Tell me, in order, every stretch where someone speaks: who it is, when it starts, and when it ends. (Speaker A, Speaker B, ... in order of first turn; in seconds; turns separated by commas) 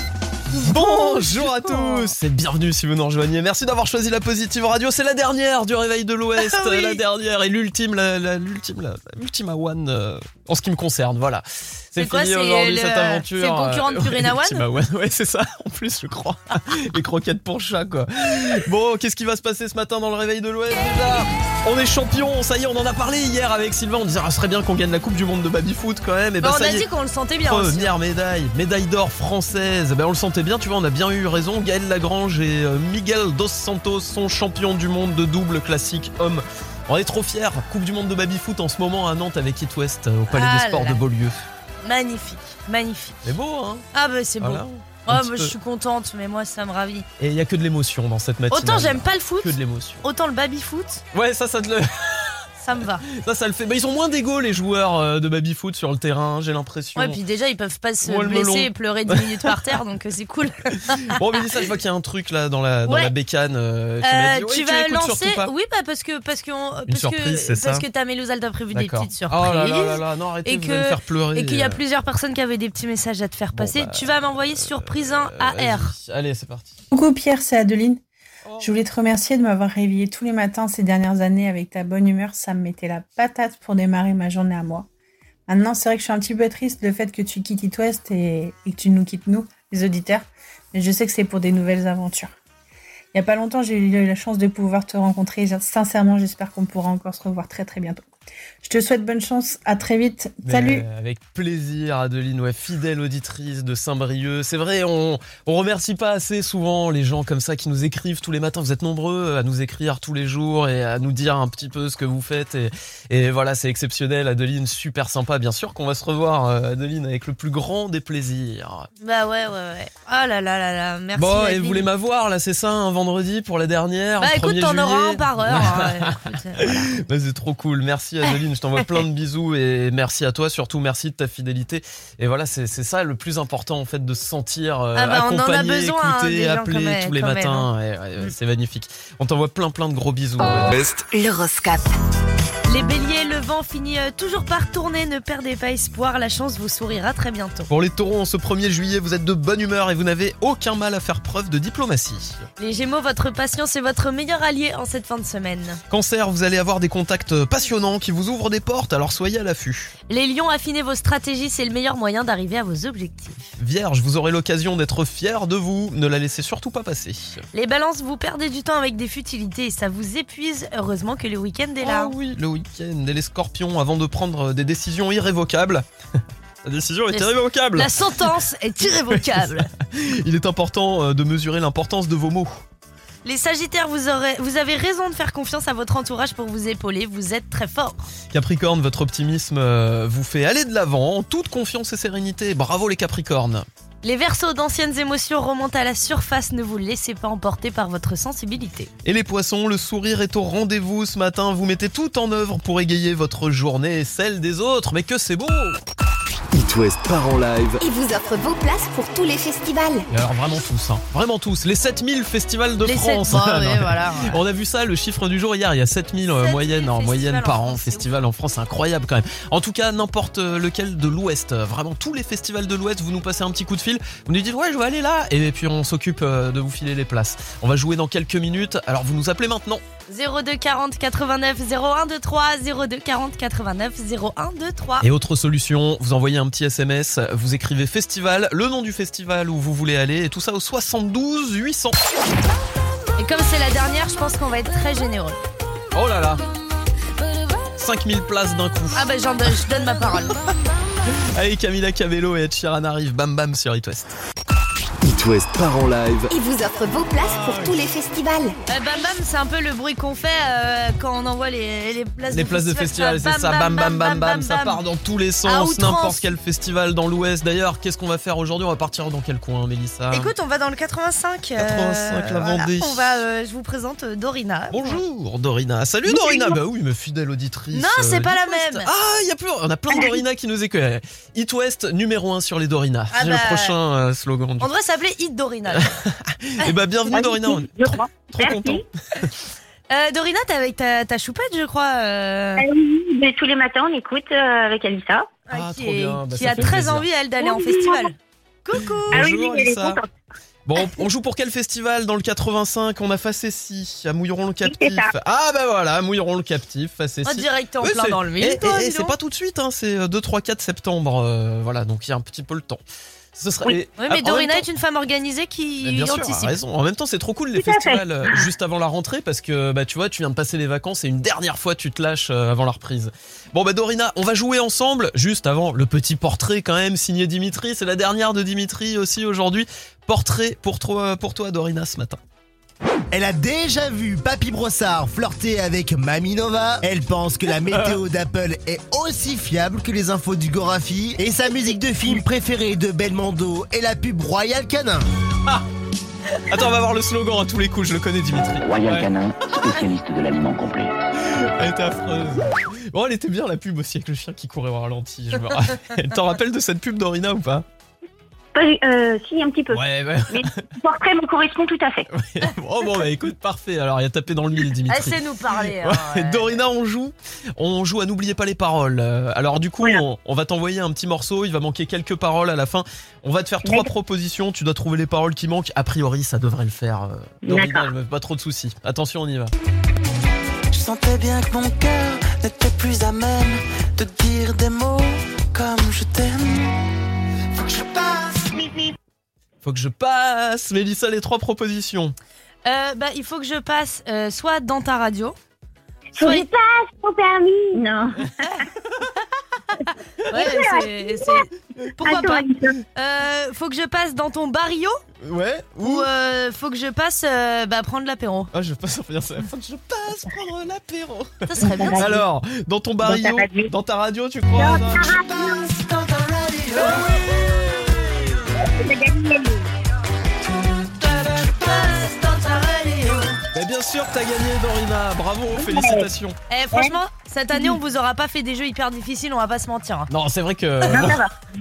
Speaker A: 0.6-26.8, Speaker B: 0.6-2.1, Speaker B: 6.4-7.0, Speaker B: 12.0-14.6, Speaker B: 26.4-27.9, Speaker A: 27.4-41.4, Speaker B: 40.3-41.0, Speaker B: 41.8-43.3, Speaker A: 43.2-43.8, Speaker B: 43.9-47.1, Speaker A: 44.4-45.5, Speaker A: 47.2-50.0, Speaker B: 48.5-51.0, Speaker A: 51.1-52.4, Speaker B: 52.6-53.0, Speaker A: 53.1-57.2, Speaker B: 57.0-61.1, Speaker A: 58.0-59.5, Speaker A: 61.1-65.5, Speaker B: 64.0-75.9, Speaker A: 66.9-67.8, Speaker A: 68.7-71.8, Speaker A: 73.5-76.8, Speaker C: 76.9-78.0, Speaker A: 78.5-78.8, Speaker C: 78.6-84.9, Speaker C: 85.5-92.3, Speaker C: 93.1-98.0, Speaker C: 98.6-100.8, Speaker A: 100.4-118.9, Speaker B: 119.0-121.9, Speaker A: 121.2-140.7, Speaker B: 124.2-126.9, Speaker B: 134.9-137.7, Speaker D: 140.7-141.1, Speaker E: 141.1-141.9, Speaker B: 142.7-147.7, Speaker A: 147.7-152.5, Speaker B: 152.6-155.8, Speaker A: 155.9-159.9, Speaker B: 160.1-163.4, Speaker A: 163.6-167.4, Speaker B: 167.5-172.1, Speaker A: 171.8-175.8, Speaker A: 176.6-177.9, Speaker B: 177.1-179.7, Speaker A: 179.1-182.6, Speaker B: 183.2-188.1, Speaker A: 188.3-193.7, Speaker B: 194.0-198.9, Speaker A: 199.0-205.8, Speaker D: 206.5-207.8, Speaker E: 207.8-210.0, Speaker A: 210.1-229.8, Speaker B: 212.8-214.4, Speaker B: 216.4-218.1, Speaker B: 230.1-235.1, Speaker A: 235.0-242.0, Speaker B: 243.2-245.4, Speaker A: 245.9-246.4, Speaker A: 247.8-249.1, Speaker B: 248.9-250.4, Speaker A: 251.1-254.1, Speaker D: 255.0-256.3, Speaker E: 256.3-258.6, Speaker A: 257.2-257.8, Speaker B: 258.7-264.8, Speaker A: 262.3-270.3, Speaker B: 265.4-266.2, Speaker B: 270.1-275.0, Speaker A: 271.6-273.2, Speaker A: 274.7-284.7, Speaker B: 276.1-276.5, Speaker B: 277.7-278.9, Speaker B: 283.1-283.7, Speaker B: 284.6-285.9, Speaker A: 285.7-288.9, Speaker F: 287.1-288.8, Speaker B: 289.9-292.6, Speaker F: 292.6-295.3, Speaker B: 295.5-299.3, Speaker A: 295.5-297.1, Speaker F: 297.4-298.1, Speaker A: 299.1-300.0, Speaker F: 299.1-300.0, Speaker A: 300.6-312.8, Speaker F: 304.6-305.1, Speaker B: 307.2-309.1, Speaker A: 313.3-314.6, Speaker B: 314.0-316.6, Speaker A: 315.8-332.2, Speaker F: 317.6-318.4, Speaker G: 333.1-345.0, Speaker A: 337.7-338.0, Speaker A: 346.5-349.1, Speaker H: 348.6-350.9, Speaker A: 351.2-357.6, Speaker F: 358.5-362.1, Speaker A: 359.7-360.6, Speaker A: 362.1-365.2, Speaker B: 364.9-366.6, Speaker A: 365.8-379.5, Speaker F: 377.4-377.9, Speaker I: 380.7-386.8, Speaker I: 387.6-387.9, Speaker F: 388.6-388.9, Speaker A: 389.6-392.1, Speaker B: 392.6-395.4, Speaker F: 396.1-398.2, Speaker B: 396.2-396.5, Speaker B: 400.3-405.0, Speaker F: 400.3-401.4, Speaker F: 402.0-402.7, Speaker A: 405.2-406.1, Speaker B: 405.8-408.5, Speaker A: 408.5-415.1, Speaker B: 411.5-412.2, Speaker F: 411.7-412.1, Speaker F: 413.0-413.7, Speaker F: 414.6-415.7, Speaker A: 416.8-418.3, Speaker F: 418.6-419.6, Speaker B: 421.7-423.1, Speaker A: 423.5-426.4, Speaker F: 425.6-426.0, Speaker B: 426.5-430.1, Speaker A: 430.1-431.2, Speaker F: 430.9-431.3